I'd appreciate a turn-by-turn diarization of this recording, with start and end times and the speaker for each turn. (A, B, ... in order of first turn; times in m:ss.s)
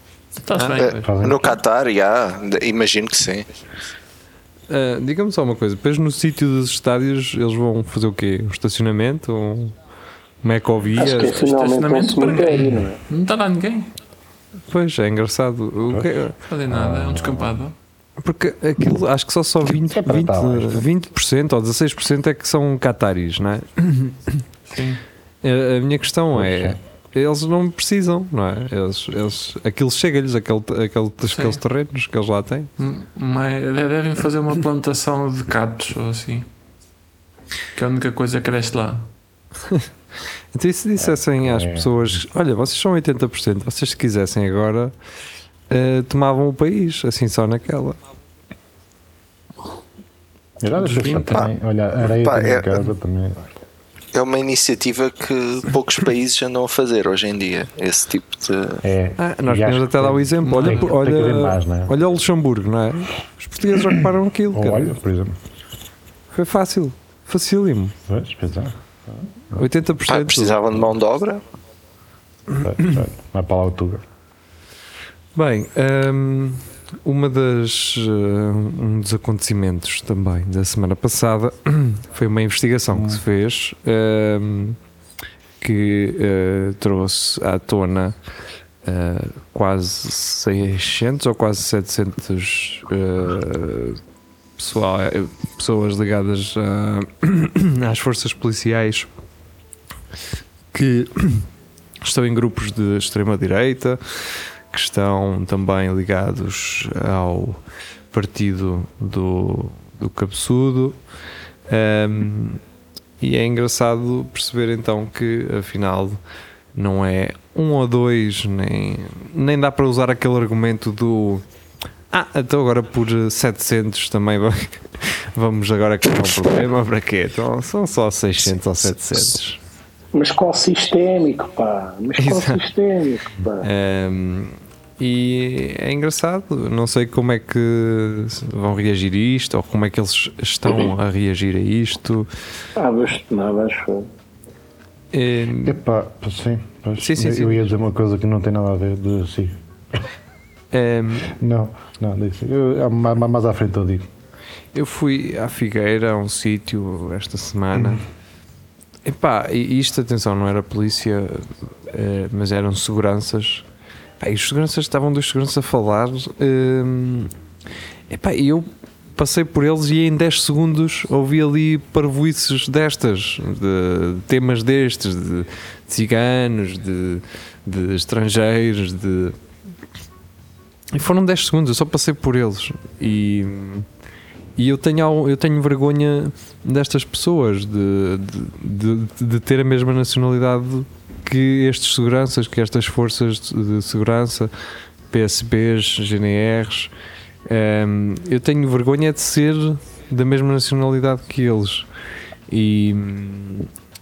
0:00.4-0:01.1 A
0:00.5-0:00.8 B
0:00.8-0:03.5 C
0:01.0-0:01.6 D
0:04.7-0:09.8 B
0:10.4-0:11.4 B
0:11.0-0:13.0 E
0:11.2-0:13.9 A
0:14.7-0:16.4 B
0:15.9-0:17.6 D
0:16.4-0:17.8 A
0:18.2-0:24.4 B
0:19.8-0:20.9 D
0:24.7-0:25.0 A
0:25.4-0:32.7 B
0:26.3-0:26.8 D
0:31.3-0:31.6 A
0:32.8-0:36.5 A
0:37.8-0:39.1 A
0:40.5-0:44.9 B
0:41.0-0:42.2 D
0:45.7-0:48.0 B
0:50.6-0:53.4 D
0:50.8-0:51.5 A
0:52.1-0:52.9 C
0:54.1-0:58.8 C
0:58.8-1:01.9 D
0:59.2-1:04.9 B
1:00.4-1:00.9 A
1:04.5-1:05.4 D
1:06.3-1:08.0 B
1:08.1-1:09.6 D
1:09.5-1:10.6 B
1:10.1-1:11.4 C
1:12.6-1:14.0 D
1:15.4-1:24.8 B
1:25.6-1:28.2 B
1:28.8-1:34.0 B
1:34.6-1:39.1 B
1:40.7-1:41.5 B
1:42.0-1:47.6 B
1:48.1-1:51.0 B
1:51.7-1:52.6 B
1:53.2-1:56.2 B
1:56.8-2:01.4 B
2:02.1-2:09.6 B
2:10.1-2:13.7 E
2:12.2-2:12.6 B
2:13.6-2:22.3 B
2:22.8-2:24.1 E
2:25.1-2:25.8 B
2:25.6-2:29.6 D
2:27.0-2:27.7 B
2:30.7-2:31.4 B
2:31.3-2:34.1 D
2:34.7-2:38.0 B
2:39.0-2:43.7 B
2:44.2-2:47.3 B
2:48.1-2:59.4 B
3:00.9-3:03.9 B
3:04.6-3:14.5 B
3:15.1-3:16.9 B
3:17.5-3:21.9 B
3:22.5-3:23.7 B